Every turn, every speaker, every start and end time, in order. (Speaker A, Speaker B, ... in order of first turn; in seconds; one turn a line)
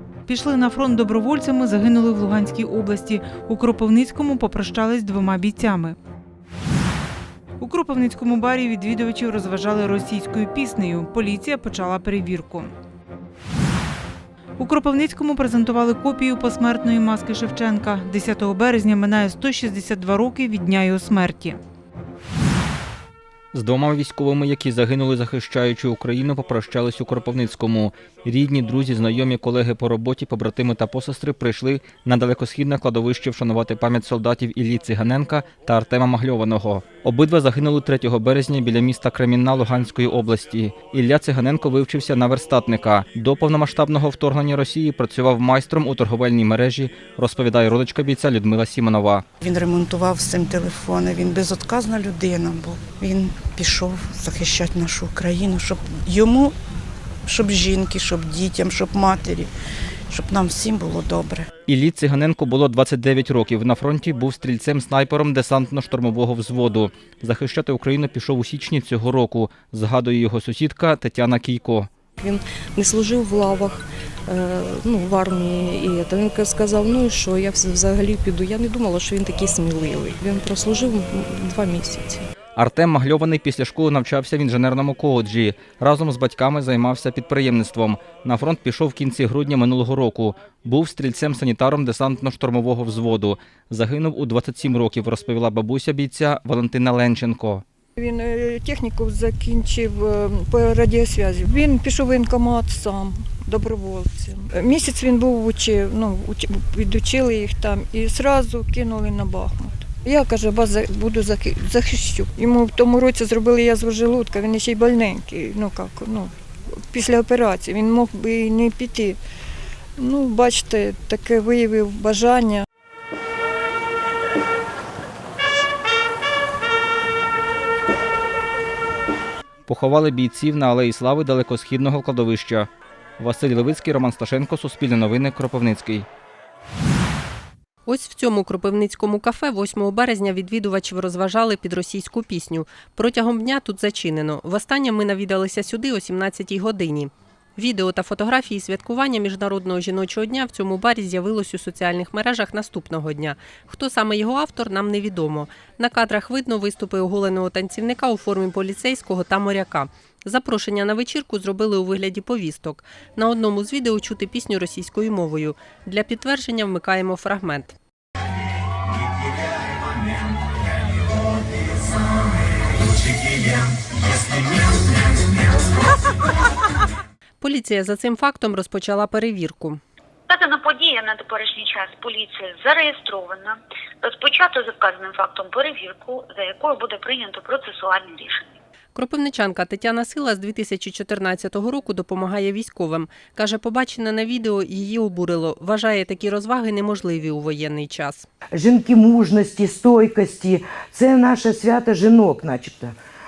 Speaker A: 0.3-6.0
Speaker A: 7.6-12.7
Speaker A: 14.6-21.6
Speaker B: 23.5-49.2
Speaker C: 49.4-56.5
Speaker C: 57.3-59.5
Speaker C: 60.1-61.5
Speaker B: 61.7-71.9
Speaker D: 72.2-82.2
Speaker B: 82.5-97.6
Speaker E: 98.0-116.3
Speaker E: 116.9-119.2
Speaker E: 120.0-122.6
Speaker B: 129.7-136.1
Speaker F: 137.8-167.7
Speaker F: 177.4-179.8
Speaker G: 180.3-188.5
Speaker F: 188.9-198.2
Speaker H: 198.6-202.9